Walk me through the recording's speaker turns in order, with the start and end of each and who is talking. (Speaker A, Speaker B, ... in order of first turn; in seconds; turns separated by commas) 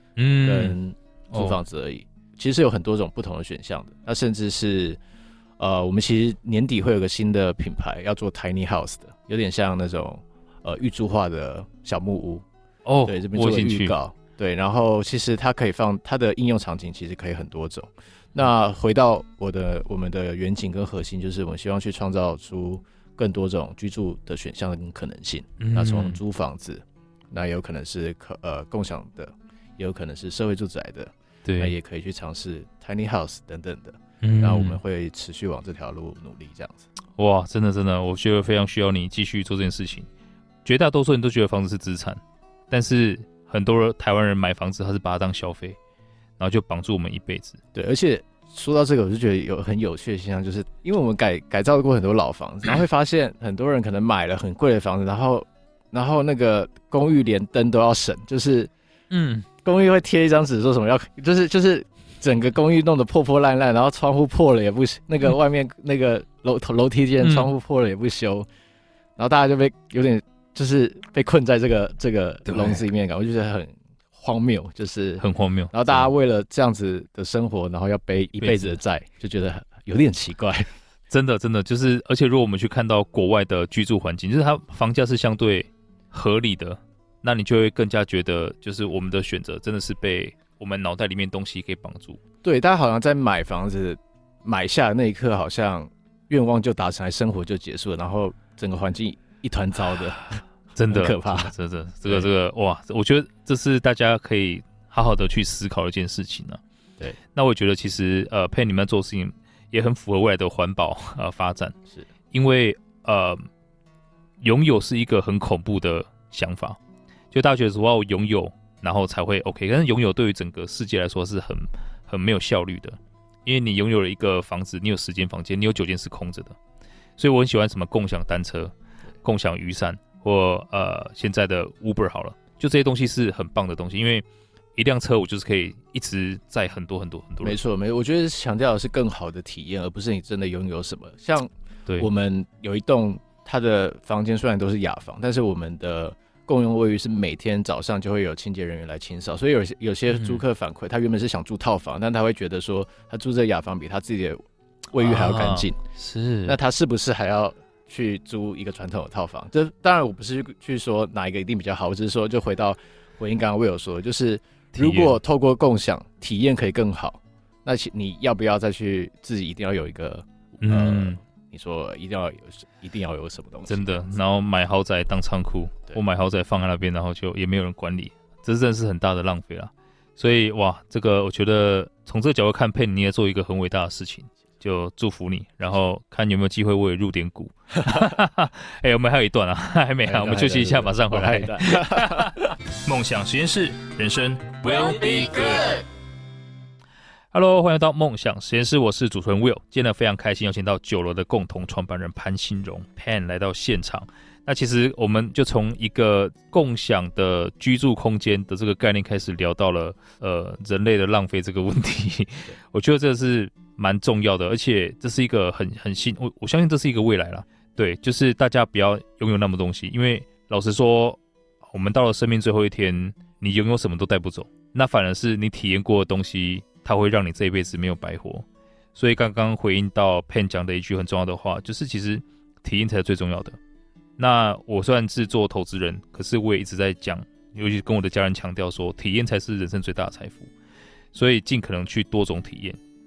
Speaker A: 0.1-0.8, Speaker B: 0.4-5.0, Speaker A: 1.3-1.6, Speaker B: 5.6-12.4, Speaker A: 12.8-13.9, Speaker B: 13.1-36.9, Speaker A: 25.6-26.2, Speaker A: 31.4-31.7, Speaker A: 34.2-34.8, Speaker A: 37.1-40.1, Speaker A: 40.6-45.8, Speaker A: 46.4-47.6, Speaker B: 47.7-58.7, Speaker A: 59.1-59.5, Speaker B: 59.6-68.5, Speaker A: 67.2-67.5, Speaker B: 69.2-80.7, Speaker A: 72.5-72.8, Speaker A: 75.2-76.1, Speaker A: 78.4-78.8, Speaker A: 81.1-92.2, Speaker B: 92.4-101.5, Speaker A: 100.8-106.6, Speaker A: 107.3-111.7, Speaker A: 112.3-113.4, Speaker A: 114.4-116.8, Speaker A: 117.3-126.6, Speaker A: 127.2-137.6, Speaker B: 137.4-155.8, Speaker A: 150.1-150.4, Speaker A: 154.9-156.6, Speaker B: 156.4-174.1, Speaker A: 164.7-165.2, Speaker A: 170.6-171.2, Speaker A: 173.7-195.8, Speaker B: 190.0-192.5, Speaker A: 197.3-233.6, Speaker A: 234.2-240.5, Speaker A: 241.1-242.8